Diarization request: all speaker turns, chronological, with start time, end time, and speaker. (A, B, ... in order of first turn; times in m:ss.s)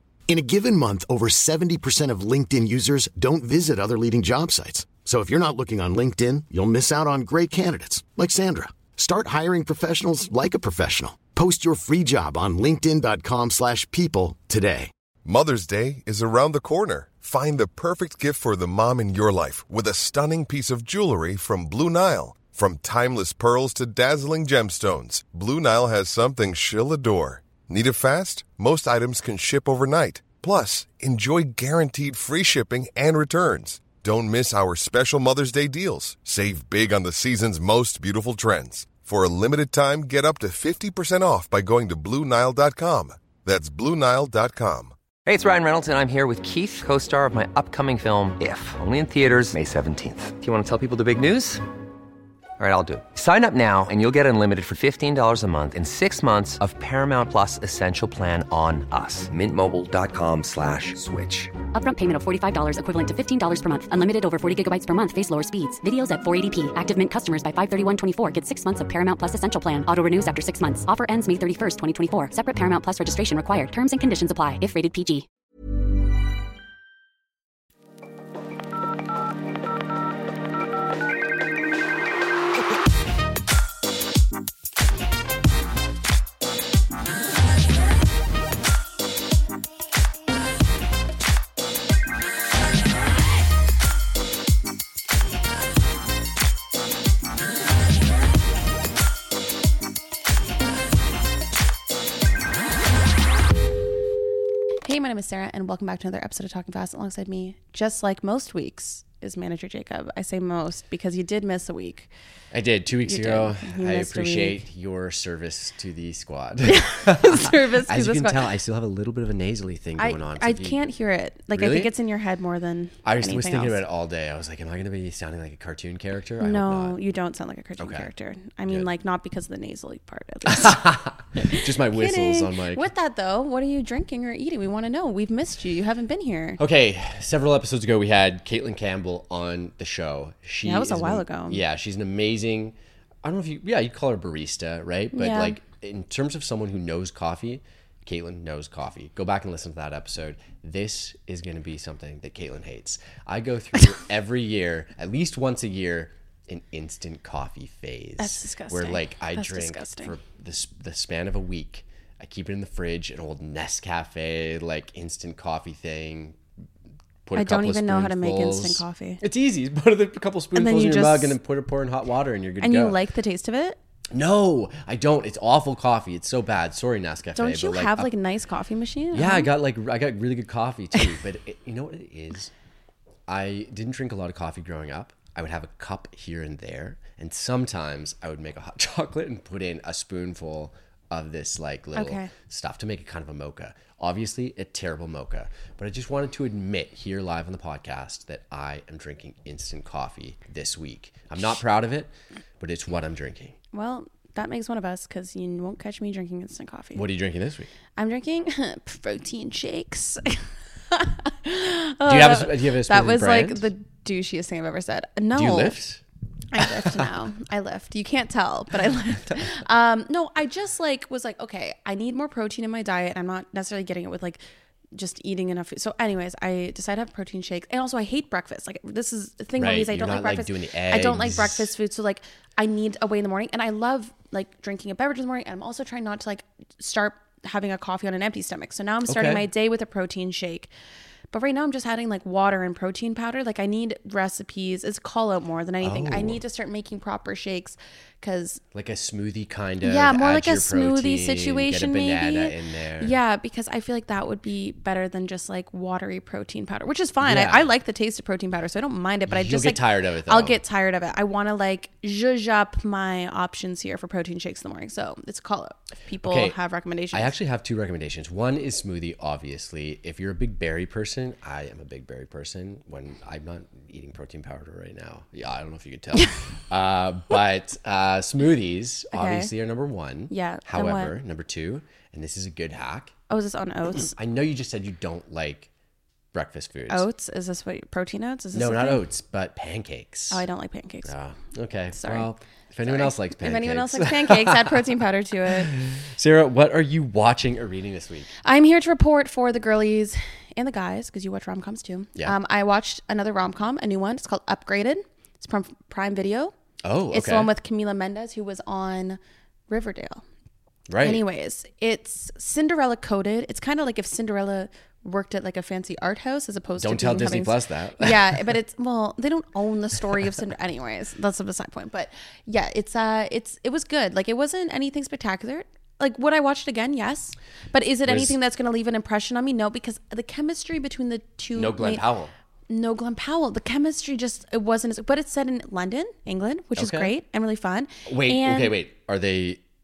0:00.3-0:14.9 A
0:15.2-0:44.9 B
0:45.2-0:51.6 C
0:52.6-1:01.5 C
1:01.7-1:15.2 D
1:44.8-1:52.1 E
1:52.5-2:00.8 F
1:53.0-1:54.6 E
1:56.7-1:58.5 E
2:00.0-2:03.8 E
2:01.5-2:01.9 F
2:03.0-2:07.0 F
2:06.4-2:10.8 E
2:07.8-2:08.1 F
2:10.4-2:12.9 F
2:11.4-2:16.6 E
2:16.6-2:46.4 F
2:20.6-2:21.6 E
2:25.1-2:25.6 E
2:38.2-2:40.1 E
2:47.2-2:53.0 F
2:47.3-2:49.2 E
2:50.5-2:51.4 E
2:52.6-2:53.8 E
2:54.1-2:58.1 F
2:57.3-2:59.5 E
2:59.1-3:02.5 F
3:03.3-3:23.6 F
3:11.9-3:12.3 E
3:23.7-3:27.0 E
3:26.9-3:27.7 F
3:28.0-3:35.8 E
3:32.0-3:33.7 F
3:35.3-3:36.0 F
3:36.5-3:44.4 E
3:36.7-3:37.0 F
3:44.9-4:00.7 E
3:49.6-3:51.7 F
3:59.1-3:59.5 F
4:01.3-4:08.6 E
4:05.8-4:06.4 F
4:08.7-4:13.1 F
4:09.8-4:27.3 E
4:17.2-4:17.7 F
4:19.3-4:20.6 F
4:26.2-4:26.6 F
4:27.1-4:43.1 F
4:39.1-4:39.5 E
4:40.3-4:41.2 E
4:43.3-4:44.1 E
4:43.9-4:45.7 F
4:46.3-4:47.1 F
4:46.9-4:49.0 E
4:48.5-4:50.4 F
4:50.3-4:51.1 E
4:51.0-4:54.8 F
4:51.9-4:52.3 E
4:52.8-4:55.7 E
4:55.4-4:58.3 F
4:58.4-5:06.5 E
5:06.8-5:07.5 F
5:07.1-5:10.2 E
5:10.9-5:11.2 F
5:11.0-5:32.0 E
5:16.8-5:18.4 F
5:28.0-5:28.4 F
5:31.5-5:32.3 F
5:32.7-5:38.8 E
5:36.8-5:37.1 F
5:38.0-5:39.6 F